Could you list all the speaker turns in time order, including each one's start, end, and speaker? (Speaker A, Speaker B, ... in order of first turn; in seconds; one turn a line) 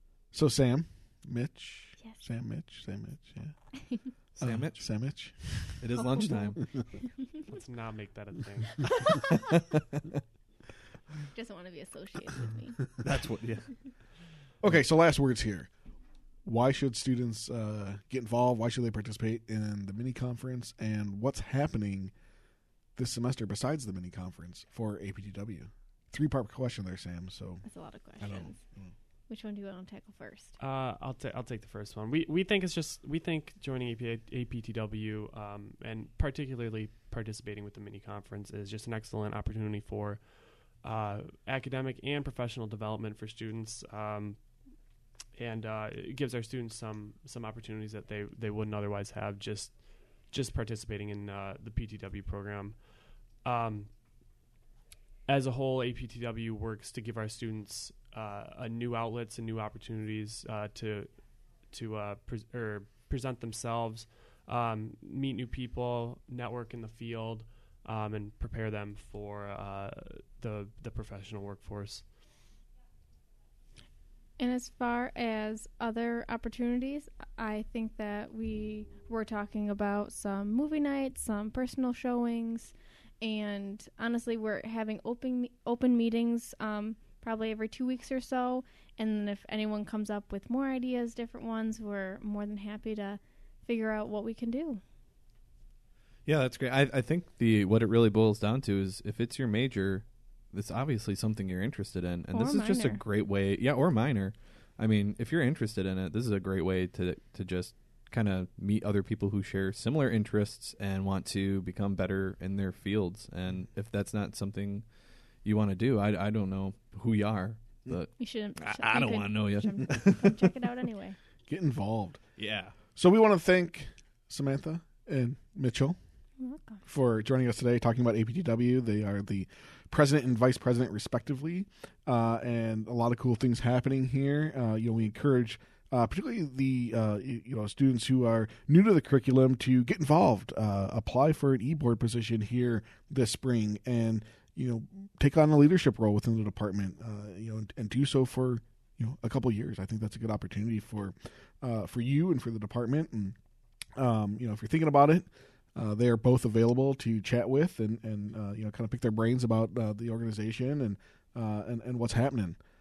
Speaker A: 0.3-5.8
Speaker B: 4.3-6.7
Speaker C: 7.4-9.2
Speaker D: 11.3-12.8
Speaker B: 13.0-14.1
Speaker A: 14.6-15.7
Speaker A: 16.4-22.1
Speaker A: 23.0-27.6
Speaker D: 27.6-28.6
Speaker A: 28.2-28.9
Speaker D: 29.3-30.6
Speaker C: 30.6-54.0
Speaker C: 55.3-72.1
Speaker D: 74.4-94.8
Speaker B: 96.3-120.5
Speaker D: 102.3-103.0
Speaker D: 118.2-121.2
Speaker A: 121.5-122.3
Speaker B: 122.4-122.8
Speaker A: 123.0-126.0
Speaker D: 126.4-126.8
Speaker A: 126.9-153.4
Speaker A: 154.0-162.6